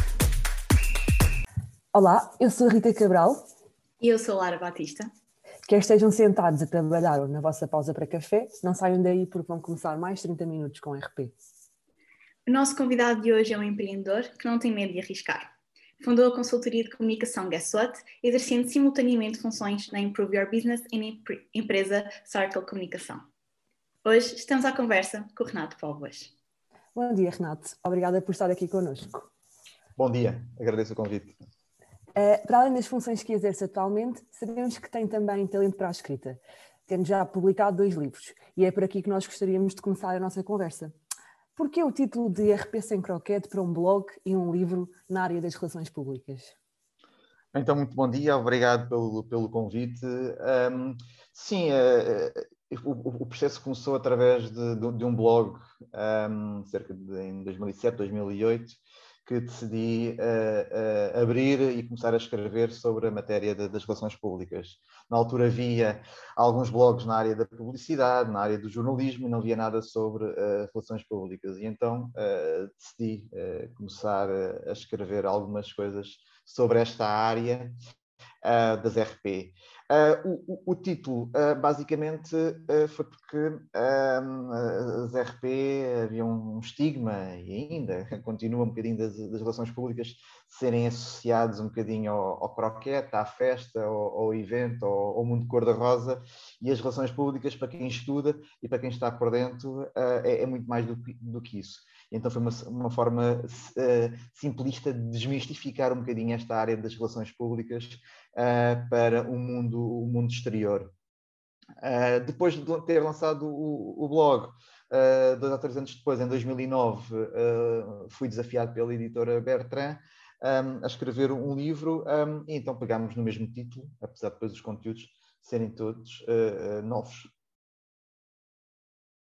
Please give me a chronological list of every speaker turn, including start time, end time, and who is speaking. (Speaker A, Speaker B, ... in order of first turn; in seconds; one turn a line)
Speaker A: 1.9-3.5
Speaker B: 4.0-5.1
Speaker A: 5.7-11.3
Speaker B: 12.4-23.2
Speaker B: 24.0-26.3
Speaker A: 26.9-29.3
Speaker C: 30.0-31.4
Speaker A: 32.1-40.9
Speaker A: 41.5-46.5
Speaker C: 47.5-77.8
Speaker C: 78.4-110.9
Speaker C: 111.8-127.3